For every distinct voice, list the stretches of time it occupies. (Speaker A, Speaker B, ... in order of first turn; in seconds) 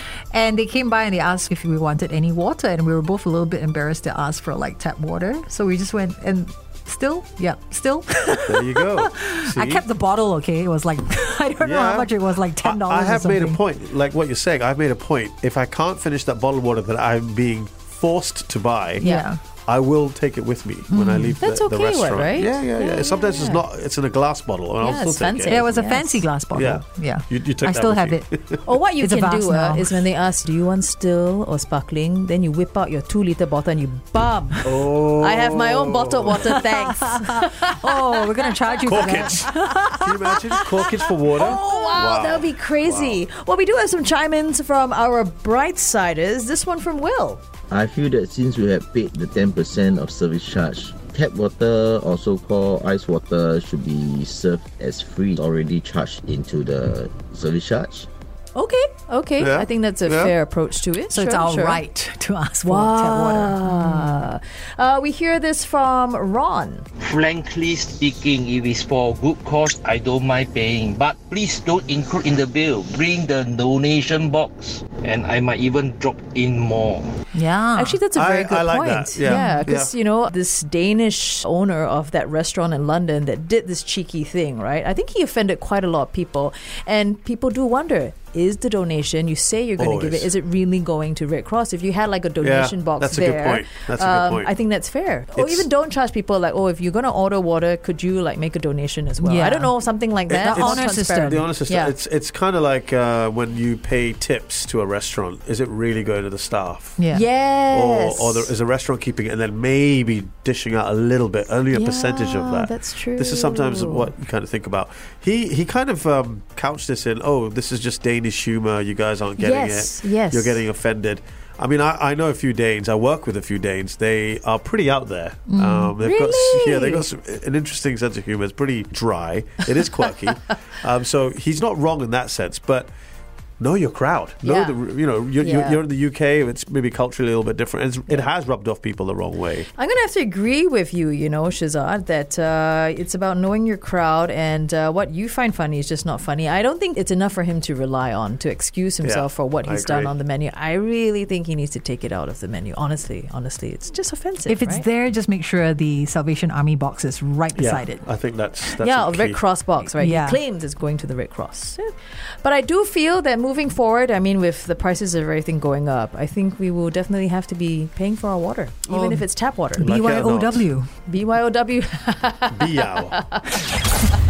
Speaker A: 0.3-13.6, 19.0-19.4, 20.9-21.4, 25.5-28.2, 29.0-29.9, 36.4-41.1, 61.1-64.2, 77.3-78.0, 79.2-79.7, 99.2-99.7, 100.3-101.5, 107.0-107.2, 125.5-126.0, 154.5-158.0, 159.8-160.4, 168.9-169.2, 169.8-170.9
Speaker B: 8.4-9.8, 11.6-19.1, 19.7-25.6, 26.5-28.6, 34.6-36.6, 38.9-43.2, 59.4-60.3, 78.1-79.9, 89.8-90.3, 92.4-94.5, 95.3-95.7, 100.3-107.0, 107.7-132.9, 133.6-139.7, 149.0-150.2, 157.6-159.4, 169.8-170.7, 172.5-173.2
Speaker C: 19.0-19.2, 21.4-23.6, 24.8-26.2, 28.6-39.4, 41.4-47.4, 58.5-61.8, 62.6-66.8, 77.8-101.9, 107.1-108.5, 111.7-114.1, 119.4-120.6, 126.0-127.0, 134.4-134.8, 135.4-135.8, 139.8-154.9, 158.8-169.9, 171.1-173.5
Speaker D: 47.7-58.1
Speaker E: 67.0-77.1